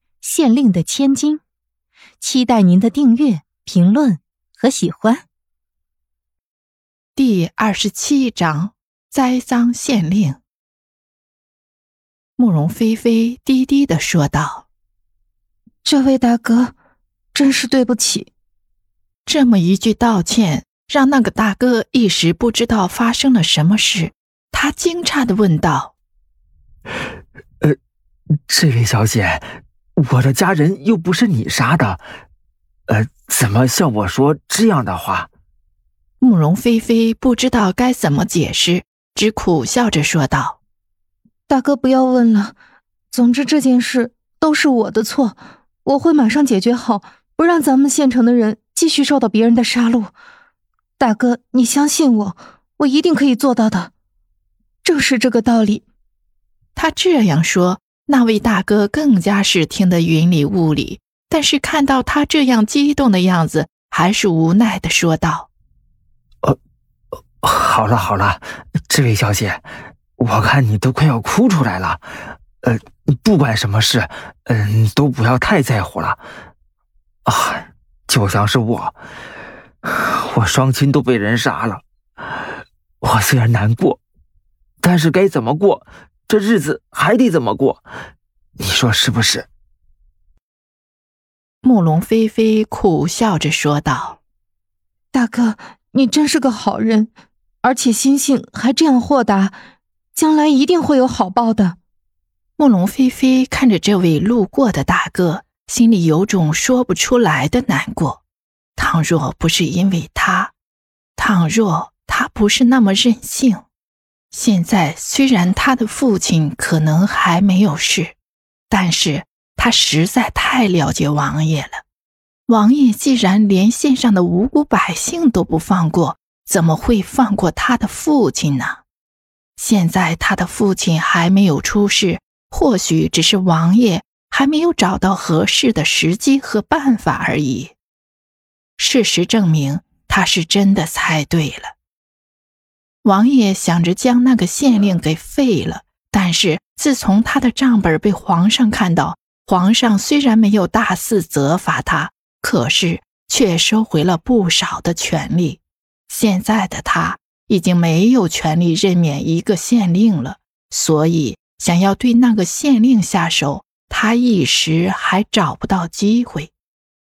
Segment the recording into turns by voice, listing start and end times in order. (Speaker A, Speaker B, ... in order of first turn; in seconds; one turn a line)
Speaker A: 0.2-1.4
Speaker A: 2.2-5.2
Speaker B: 7.2-10.4
Speaker B: 12.4-14.7
Speaker A: 15.8-16.7
Speaker A: 17.3-18.3
Speaker B: 19.2-25.9
Speaker C: 28.5-29.4
Speaker C: 30.0-32.0
Speaker C: 32.9-35.3
Speaker B: 36.2-40.6
Speaker A: 41.5-42.5
Speaker A: 43.1-50.1
Speaker A: 51.0-53.9
Speaker A: 54.8-55.8
Speaker B: 56.8-65.5
Speaker C: 67.4-69.6
Speaker C: 70.2-72.0
Speaker C: 72.6-76.2
Speaker C: 77.2-79.0
Speaker C: 79.8-81.8
Speaker C: 83.0-84.0
Speaker C: 84.8-87.9
Speaker C: 88.6-89.5
Speaker B: 91.6-94.2
Speaker A: 95.1-97.1
Speaker A: 97.6-99.5
Speaker A: 100.1-101.8
Speaker B: 102.6-108.2
Speaker B: 108.8-110.5
Speaker B: 111.2-113.6
Speaker B: 114.3-118.2
Speaker B: 118.7-121.8
Speaker B: 122.5-128.8
Speaker B: 129.6-137.7
Speaker B: 138.8-141.7
Speaker B: 143.0-166.5